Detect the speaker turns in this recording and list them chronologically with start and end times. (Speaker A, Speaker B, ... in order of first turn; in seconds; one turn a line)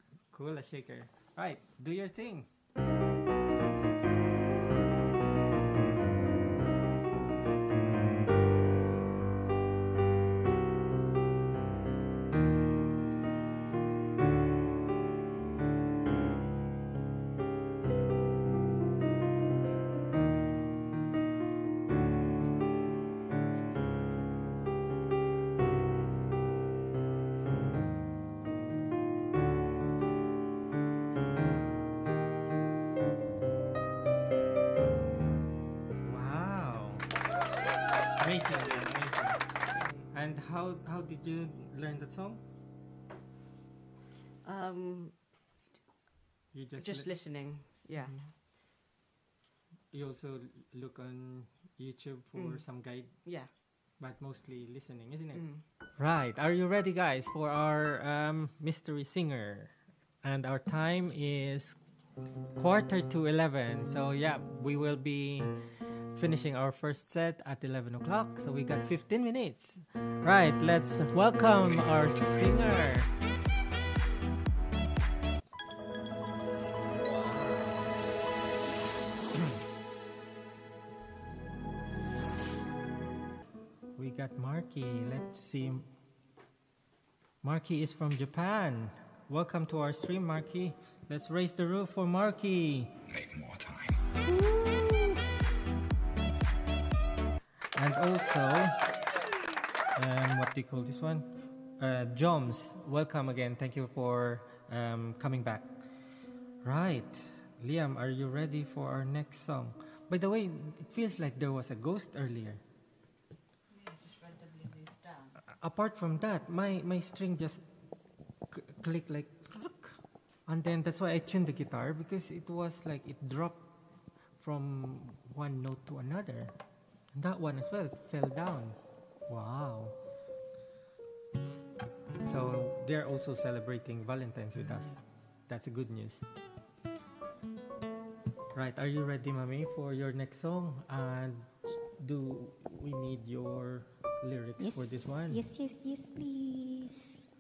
Speaker A: 0.3-2.5
Speaker A: 36.0-37.1
Speaker A: 38.2-39.4
Speaker B: 39.7-40.1
Speaker A: 40.1-42.4
Speaker B: 44.4-45.2
Speaker A: 46.5-47.1
Speaker B: 46.8-48.2
Speaker A: 49.9-53.1
Speaker B: 52.4-52.6
Speaker B: 53.2-53.5
Speaker A: 54.0-55.4
Speaker B: 55.3-55.6
Speaker A: 56.0-59.7
Speaker A: 60.2-61.8
Speaker A: 62.6-73.1
Speaker A: 77.0-77.9
Speaker A: 84.0-85.9
Speaker A: 87.4-92.9
Speaker A: 94.2-95.2
Speaker A: 97.8-98.8
Speaker A: 100.0-105.7
Speaker A: 106.6-112.6
Speaker B: 113.8-115.3
Speaker A: 115.4-117.6
Speaker A: 118.5-123.7
Speaker A: 124.4-126.5
Speaker A: 127.2-130.0
Speaker A: 132.2-136.3
Speaker A: 138.5-145.4
Speaker C: 144.6-147.1